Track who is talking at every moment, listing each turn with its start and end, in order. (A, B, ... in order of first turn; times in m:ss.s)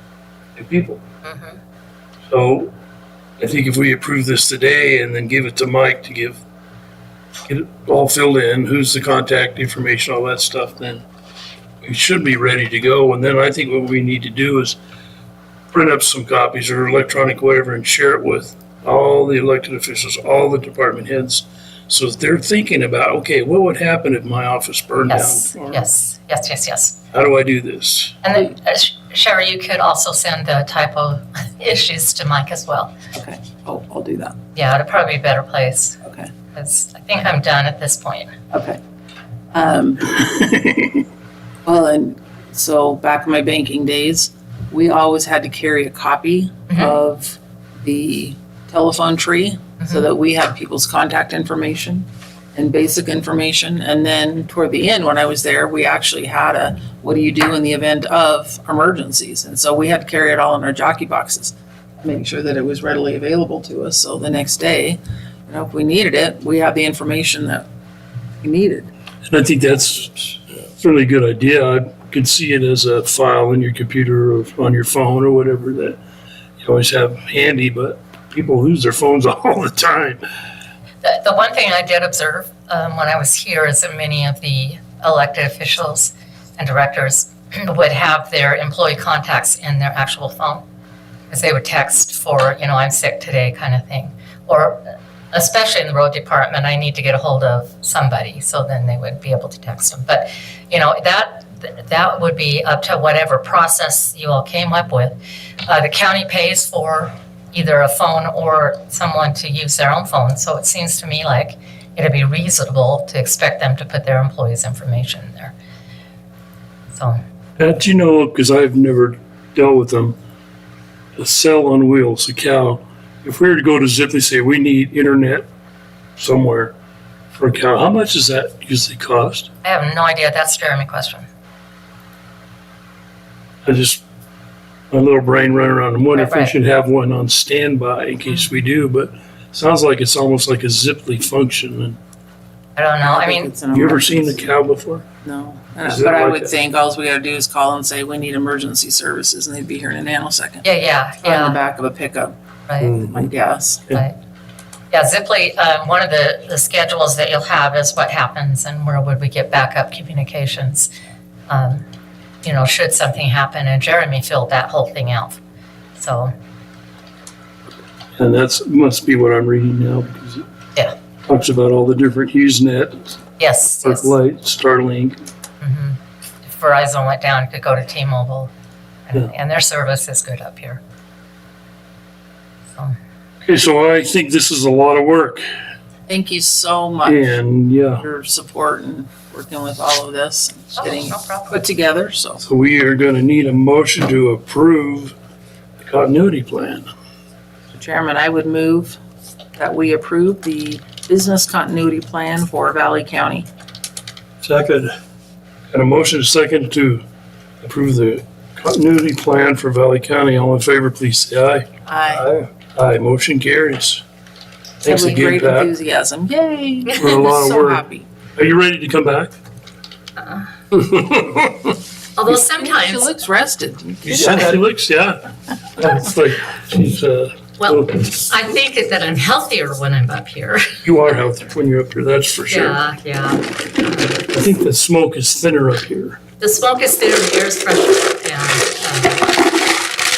0:00.6-0:01.0 A
0:01.2-0:01.6 B
0:02.3-0:02.7 A
0:03.4-0:06.4 A
0:07.5-0:11.0 A
0:11.8-0:14.8 A
0:15.7-0:25.8 A
0:25.0-0:27.0 B
0:27.1-0:28.2 A
0:28.2-0:32.9 B
0:33.1-0:34.4 C
0:34.6-0:36.0 B
0:36.5-0:38.3 B
0:38.5-0:38.8 C
0:39.5-0:40.3 C
0:40.5-0:40.9 A
0:41.6-1:07.7 C
1:08.4-1:08.9 C
1:09.3-1:16.0 A
1:16.6-1:20.2 A
1:21.0-1:30.6 B
1:31.3-1:55.6 B
1:57.0-1:57.2 B
1:57.6-2:00.2 A
2:01.2-2:05.5 A
2:06.2-2:06.7 A
2:07.3-2:09.5 A
2:09.6-2:11.3 B
2:13.6-2:14.0 A
2:14.9-2:22.0 A
2:16.1-2:16.6 B
2:22.8-2:23.5 B
2:23.0-2:24.4 C
2:23.7-2:25.1 A
2:25.2-2:30.6 C
2:25.8-2:26.6 A
2:30.6-2:31.6 B
2:31.2-2:32.4 C
2:32.7-2:33.0 B
2:32.9-2:33.9 C
2:33.9-2:34.2 B
2:34.9-2:40.9 B
2:41.5-2:41.8 B
2:42.4-2:45.4 B
2:46.0-2:46.3 B
2:48.2-2:50.4 A
2:51.3-2:53.2 A
2:53.4-2:54.2 B
2:53.8-2:55.2 A
2:55.6-2:58.5 B
2:59.1-3:00.8 B
3:03.4-3:05.4 A
3:06.1-3:07.2 C
3:07.0-3:08.0 A
3:08.0-3:12.4 C
3:10.8-3:11.6 B
3:12.4-3:15.2 A
3:15.8-3:16.9 A
3:17.7-3:19.0 C
3:19.6-3:23.5 C
3:24.4-3:24.9 A
3:25.7-3:27.0 A
3:27.6-3:34.0 A
3:31.9-3:32.3 C
3:34.8-3:35.7 A
3:34.8-3:38.1 C
3:37.0-3:39.3 A
3:40.2-3:40.5 B
3:40.8-3:41.4 A
3:42.2-3:43.1 B
3:42.3-3:44.6 C
3:44.0-3:48.1 A
3:47.6-3:51.1 B
3:50.8-3:52.8 A
3:52.5-3:54.3 B
3:54.3-3:56.2 A
3:56.4-3:59.3 B